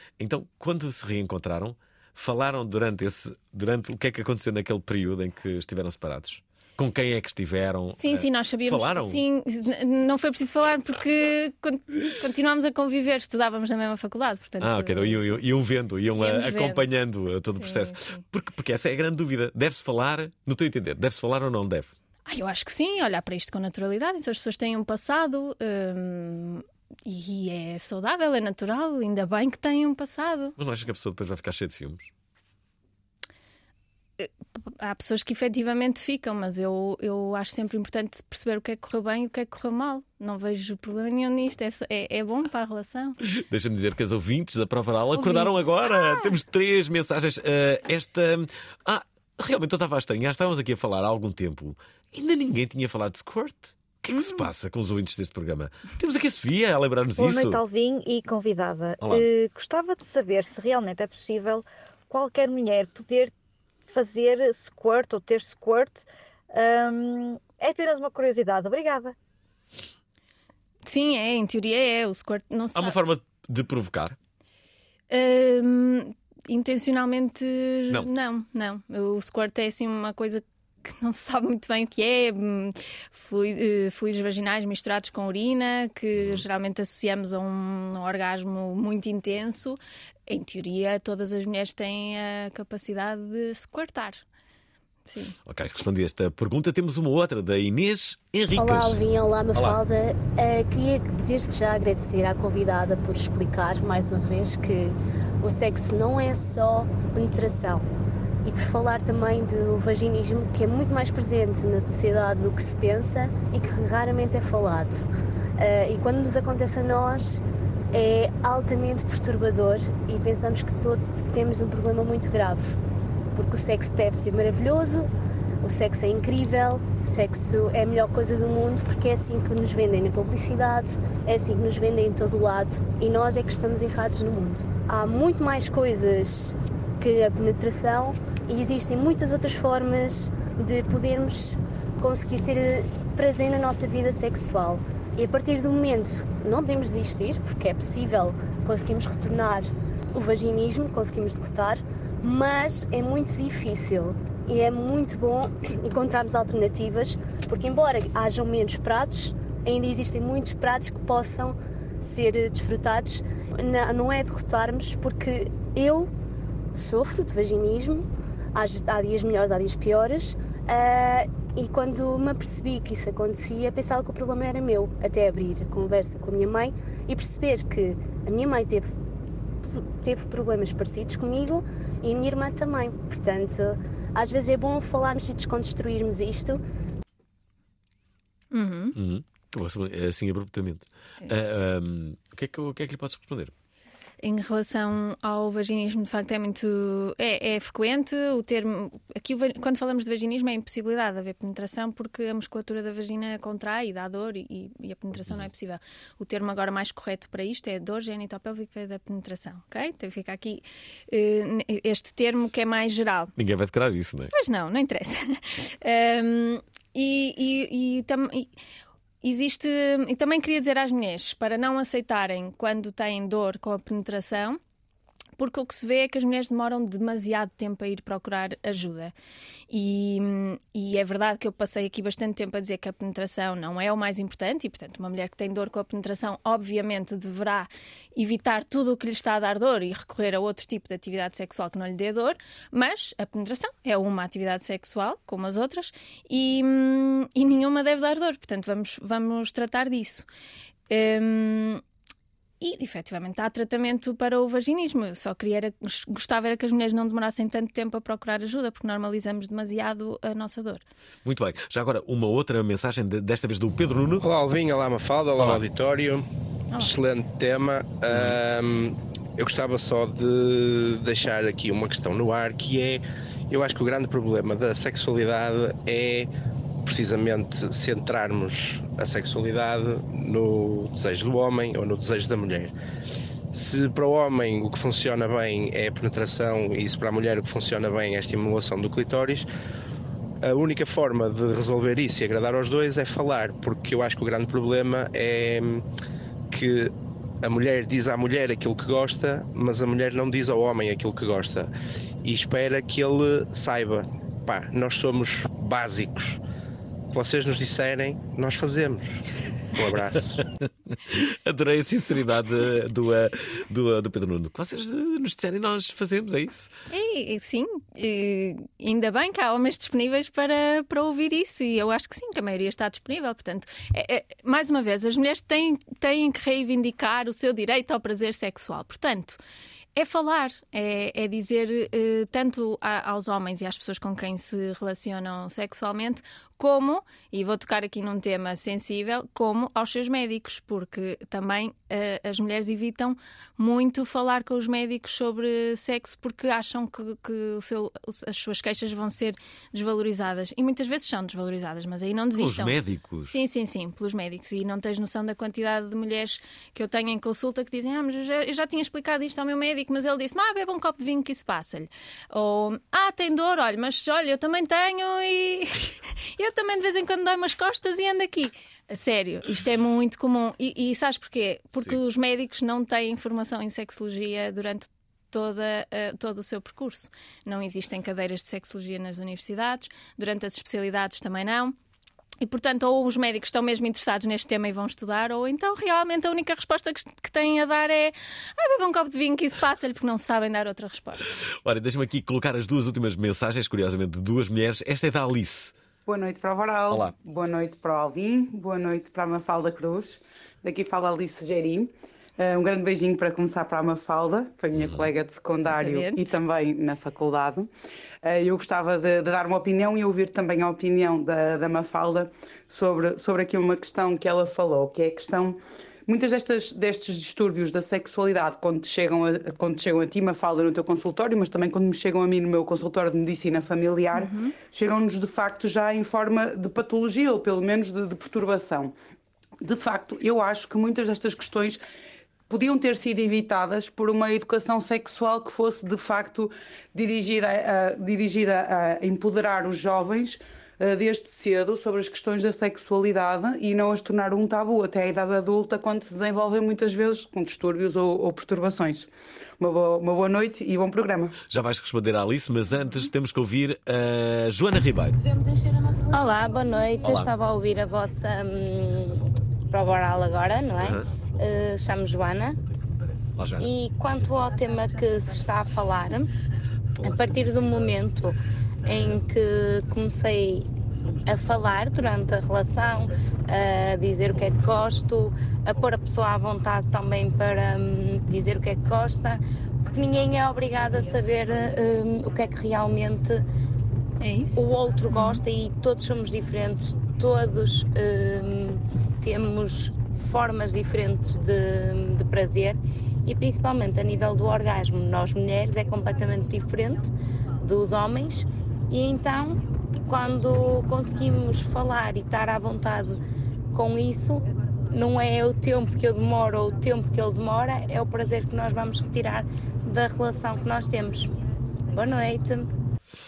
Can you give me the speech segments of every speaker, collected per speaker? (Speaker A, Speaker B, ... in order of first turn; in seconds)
Speaker A: 0.2-9.2, 14.6-21.9, 30.6-32.1, 43.2-57.6, 59.0-59.2, 72.8-74.2, 86.2-86.4, 95.5-99.0, 99.5-99.8, 188.9-193.5, 213.4-214.3, 261.2-264.2, 268.1-268.4, 310.4-316.7, 352.3-353.4, 391.6-395.8, 404.8-405.1, 451.5-455.2, 457.0-457.3, 463.4-463.7
Speaker B: 7.9-15.2, 16.2-16.9, 17.6-18.2, 22.3-30.6, 34.2-43.2, 45.1-46.3, 54.1-54.5, 70.9-73.0, 75.1-94.2, 95.1-95.4, 188.5-188.9, 194.2-213.3, 214.3-218.5, 219.2-224.6, 225.4-229.1, 229.7-250.3, 250.9-251.8, 252.6-260.8, 316.9-329.4, 330.0-352.8, 353.3-381.8, 382.4-391.3, 405.6-406.4, 424.1-424.6, 484.2-484.6
Speaker C: 57.2-63.3, 63.9-69.2
Speaker D: 98.6-107.8, 108.5-115.0, 115.6-117.4, 117.9-122.7, 123.3-125.1, 125.6-166.1, 166.8-178.9, 179.8-186.6
Speaker E: 264.2-266.3, 266.8-276.3, 276.9-282.7, 283.5-289.5, 290.4-295.9, 296.5-301.7, 302.2-306.4, 307.1-310.4
Speaker F: 396.1-407.7, 408.2-428.9, 429.6-431.8, 432.5-451.4
Speaker G: 456.1-462.6, 463.6-466.3, 467.0-470.7, 471.2-483.4, 484.6-503.2, 503.7-511.3, 511.9-512.7